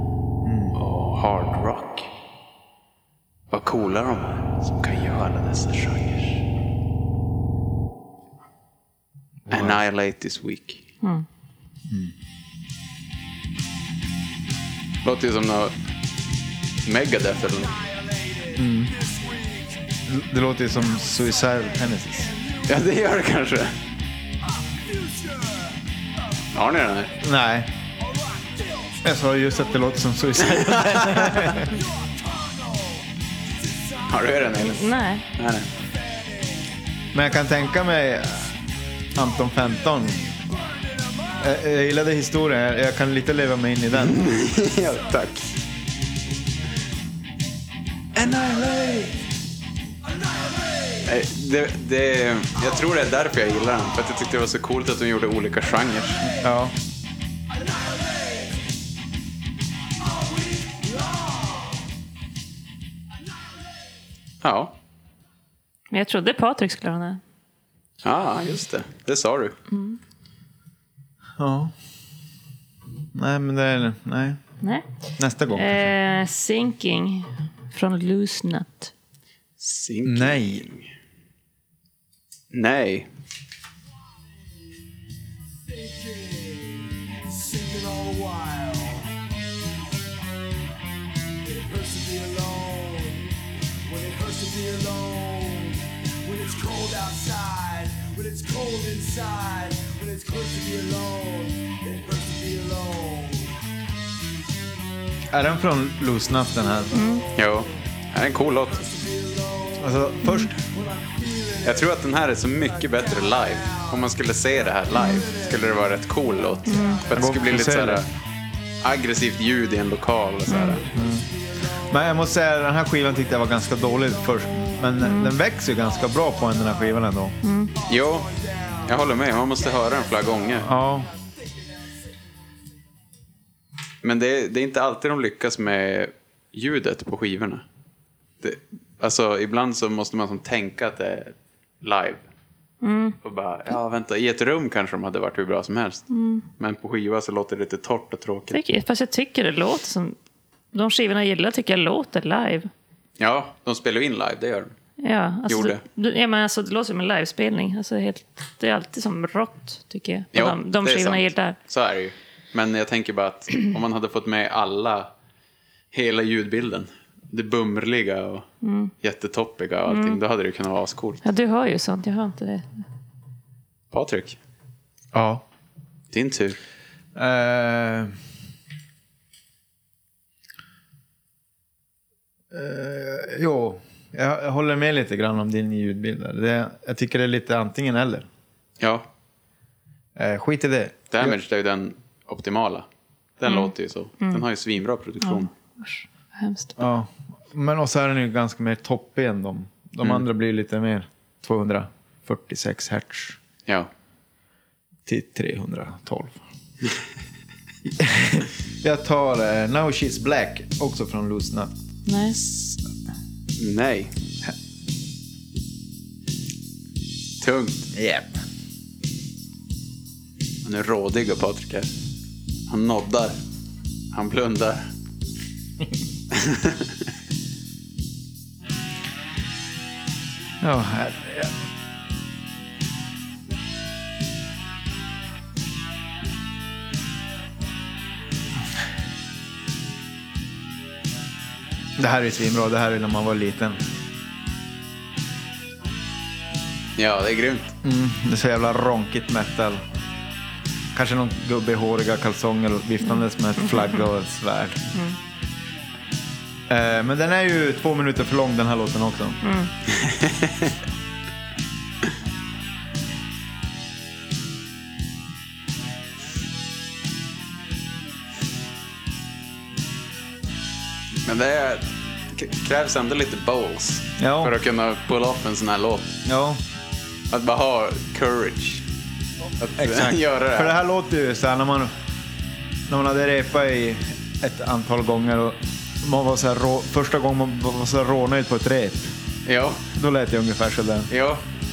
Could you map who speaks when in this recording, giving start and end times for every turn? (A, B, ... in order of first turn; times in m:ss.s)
0:00.4-0:00.8 A
0:00.7-0:02.1 B
0:03.5-0:06.4 B
0:09.4-0:09.8 A
0:09.5-0:10.9 B
0:11.9-0:12.1 A
0:15.0-0:15.7 B
0:16.8-0:17.7 B
0:17.5-0:19.9 C
0:18.6-0:18.9 A
0:20.1-0:22.3 A
0:21.0-0:22.9 C
0:22.6-0:23.7 B
0:24.4-0:25.8 C
0:26.5-0:27.1 B
0:27.2-0:27.7 A
0:28.0-0:29.6 C
0:29.0-0:31.7 A
0:30.4-0:31.5 B
0:31.6-0:34.8 C
0:34.1-0:35.7 B
0:34.6-0:35.2 D
0:35.7-0:36.7 C
0:37.1-0:38.5 A
0:39.1-0:40.2 A
0:39.4-0:41.6 C
0:41.4-0:44.2 A
0:43.9-0:45.5 B
0:44.4-0:45.2 C
0:48.1-0:49.2 B
0:50.0-0:51.1 C
0:51.0-0:56.3 B
0:56.4-0:56.7 A
0:57.5-0:58.6 C
1:00.0-1:01.8 C
1:04.4-1:04.7 B
1:05.9-1:07.2 D
1:08.0-1:09.6 B
1:09.7-1:10.0 D
1:11.4-1:11.7 A
1:13.1-1:14.4 A
1:15.2-1:15.9 A
1:15.5-1:18.9 D
1:19.6-1:20.9 B
1:20.0-1:20.6 A
1:22.5-1:23.1 B
1:25.6-1:29.1 C
1:31.4-1:33.3 C
1:33.8-1:43.6 C
1:45.3-1:46.9 A
1:46.9-1:47.2 D
1:47.0-1:47.7 C
1:47.3-1:48.8 B
1:48.5-1:54.1 C
1:49.8-1:50.6 A
1:50.2-1:50.5 D
1:51.6-1:58.1 B
1:54.9-1:55.8 C
1:54.9-1:55.3 D
1:56.4-1:57.3 C
1:56.7-1:57.0 D
1:57.1-1:58.0 A
1:58.8-2:00.8 B
2:00.5-2:00.8 D
2:00.6-2:02.2 C
2:00.9-2:01.3 A
2:01.9-2:07.4 A
2:04.2-2:05.0 C
2:05.0-2:05.3 D
2:05.8-2:06.9 C
2:07.4-2:07.7 D
2:07.7-2:12.1 C
2:07.9-2:08.3 B
2:08.8-2:10.7 B
2:10.6-2:11.1 A
2:14.0-2:17.6 B
2:18.4-2:22.2 B
2:22.8-2:23.2 D
2:23.2-2:26.0 B
2:26.1-2:26.4 D
2:26.6-2:28.6 B
2:28.5-2:30.2 D
2:30.7-2:32.7 D
2:33.2-2:34.7 B
2:35.0-2:41.6 D
2:35.5-2:35.8 B
2:40.3-2:45.1 B
2:45.9-2:48.5 B
2:48.6-2:48.9 D
2:49.0-2:51.2 B
2:49.9-2:50.2 D
2:51.2-2:52.6 D
2:53.9-2:54.4 B
2:55.1-2:55.4 A
2:56.1-2:56.6 B
2:57.1-2:58.1 A
3:02.5-3:08.3 A
3:08.8-3:09.1 B
3:10.2-3:11.4 A
3:11.1-3:12.8 B
3:13.4-3:15.5 B
3:13.4-3:14.4 D
3:15.2-3:16.8 D
3:16.8-3:23.4 A
3:25.0-3:26.4 A
3:28.0-3:31.7 A
3:32.0-3:32.4 D
3:33.6-3:34.1 B
3:37.4-3:37.9 B
3:37.9-3:38.4 A
3:40.6-3:41.9 B
3:42.7-3:43.4 B
3:44.1-3:44.9 B
3:46.3-3:47.0 B
3:50.6-3:51.5 A
4:02.0-4:03.8 A
4:07.0-4:07.7 B
4:07.8-4:09.8 A
4:10.9-4:14.9 A
4:13.0-4:14.0 D
4:16.7-4:19.4 A
4:19.4-4:19.7 D
4:20.0-4:20.6 B
4:31.2-4:36.2 B
4:34.2-4:34.6 A
4:36.2-4:36.6 A
4:37.3-4:38.8 B
4:39.6-4:40.8 B
4:39.8-4:41.9 A
4:42.9-4:49.1 A
4:49.4-4:49.8 B
4:49.9-4:51.1 A
4:51.1-4:51.4 B